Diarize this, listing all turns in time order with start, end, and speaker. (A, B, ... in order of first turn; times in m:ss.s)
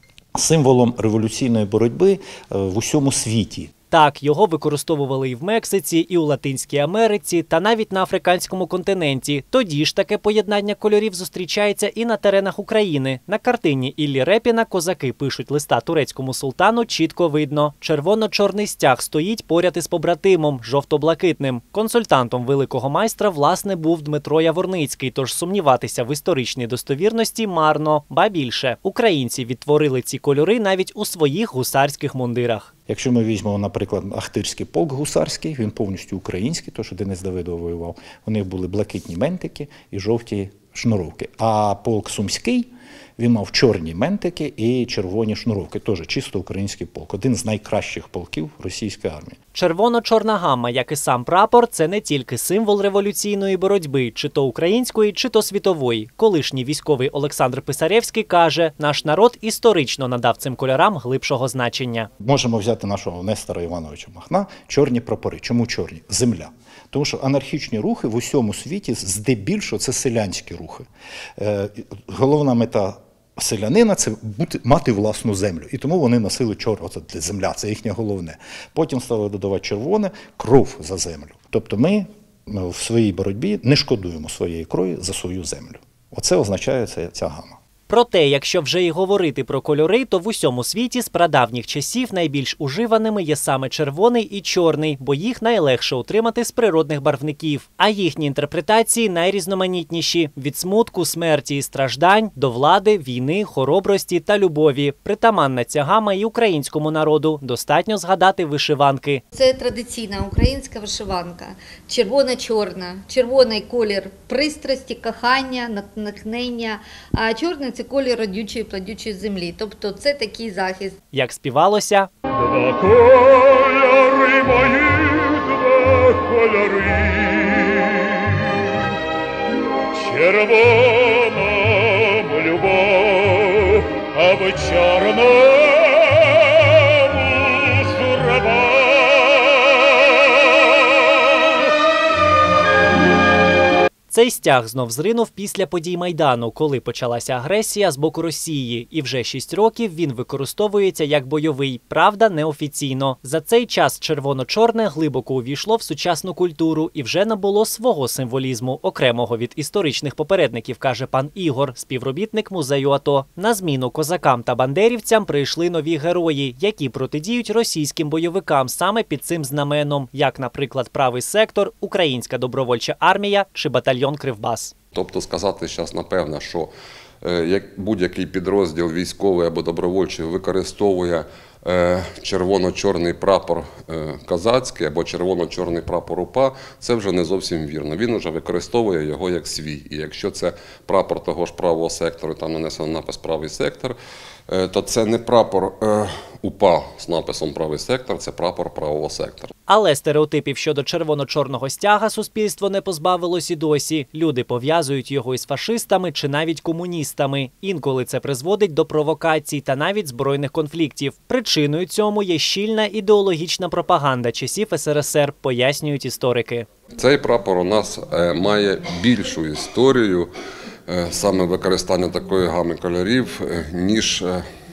0:00.3-0:03.7 A
0:03.9-0:32.7 B
0:32.9-0:49.4 A
0:49.5-1:02.1 B
1:02.2-1:10.9 A
1:11.4-1:27.6 A
1:27.9-1:49.2 B
1:49.3-2:01.0 C
2:01.1-2:02.1 B
2:02.4-2:08.3 D
2:09.9-2:19.3 D
2:24.1-2:54.7 B
2:54.9-2:56.7 E
2:57.2-3:14.0 E
3:14.5-3:19.5 E
3:19.7-3:36.7 B
3:37.0-3:40.3 E
3:40.9-3:44.4 E